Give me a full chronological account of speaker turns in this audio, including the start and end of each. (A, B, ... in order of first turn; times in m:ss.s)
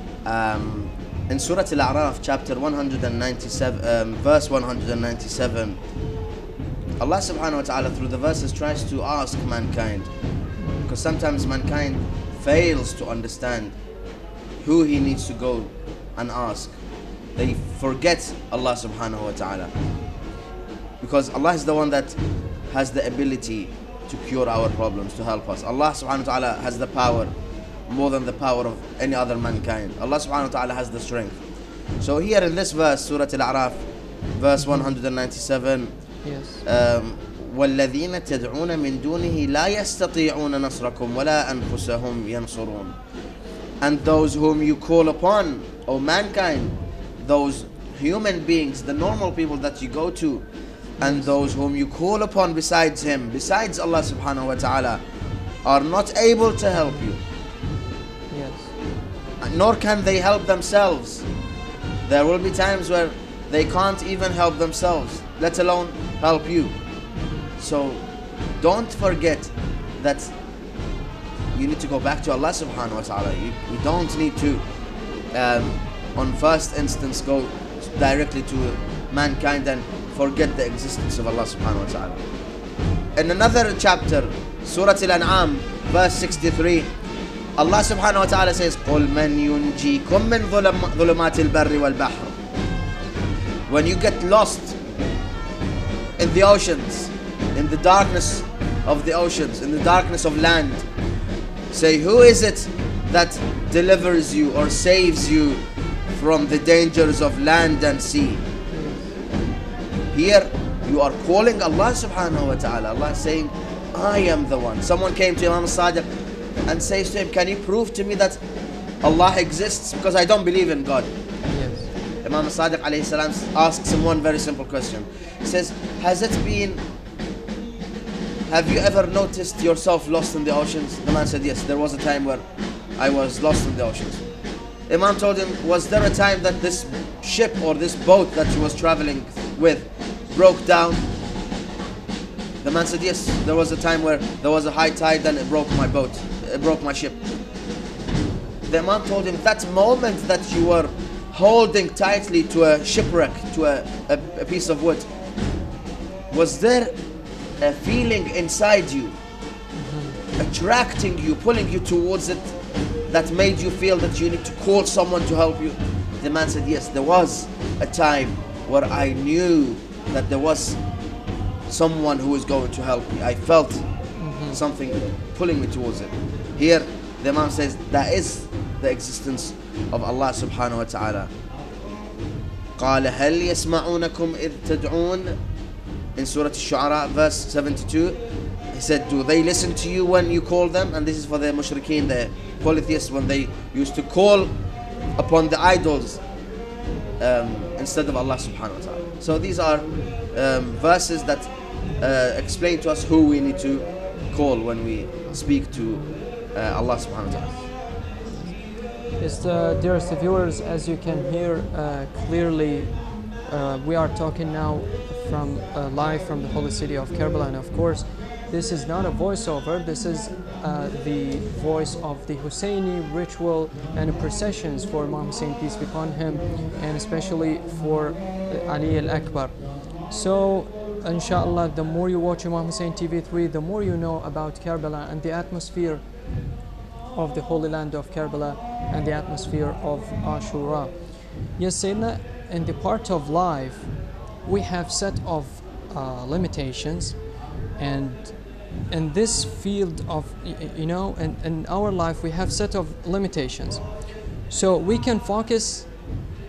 0:00.2-0:05.8 A
0:07.0-0:10.1 A
0:10.6-0:10.9 B
0:10.8-0:13.8 A
0:14.6-0:16.8 A
0:17.4-0:19.7 A
0:21.0-0:22.2 A
0:22.7-0:27.3 A
0:27.9-0:31.4 A
0:32.0-0:35.9 A
0:36.2-0:36.6 B
0:36.6-0:43.0 A
0:43.8-0:50.5 A
0:51.0-0:55.0 A
0:51.0-0:51.3 B
0:55.6-0:57.2 A
0:58.3-0:58.7 B
0:59.4-1:01.3 A
1:02.1-1:06.8 A
1:07.2-1:07.5 B
1:07.6-1:08.0 A
1:08.6-1:10.4 A
1:11.5-1:14.6 A
1:15.3-1:22.3 A
1:23.1-1:26.9 A
1:27.6-1:32.4 A
1:33.7-1:34.8 A
1:36.2-1:40.9 A
1:41.7-1:45.6 A
1:46.1-1:48.4 A
1:48.7-1:49.2 B
1:50.1-1:56.1 A
1:56.7-1:58.4 A
1:59.0-2:01.1 A
2:01.5-2:01.9 B
2:02.2-2:06.8 A
2:08.5-2:12.4 A
2:13.0-2:14.2 A
2:14.9-2:21.0 A
2:22.6-2:27.2 A
2:28.7-2:35.1 A
2:36.3-2:37.0 A
2:37.6-2:39.2 A
2:39.8-2:40.2 B
2:40.4-2:42.6 A
2:43.1-2:50.8 A
2:51.7-2:53.9 A
2:54.2-2:54.6 B
2:54.5-3:01.3 A
3:02.8-3:05.4 A
3:06.2-3:08.2 A
3:08.7-3:14.5 A
3:15.2-3:16.2 A
3:17.2-3:27.7 A
3:28.2-3:56.3 B
3:57.1-4:16.2 B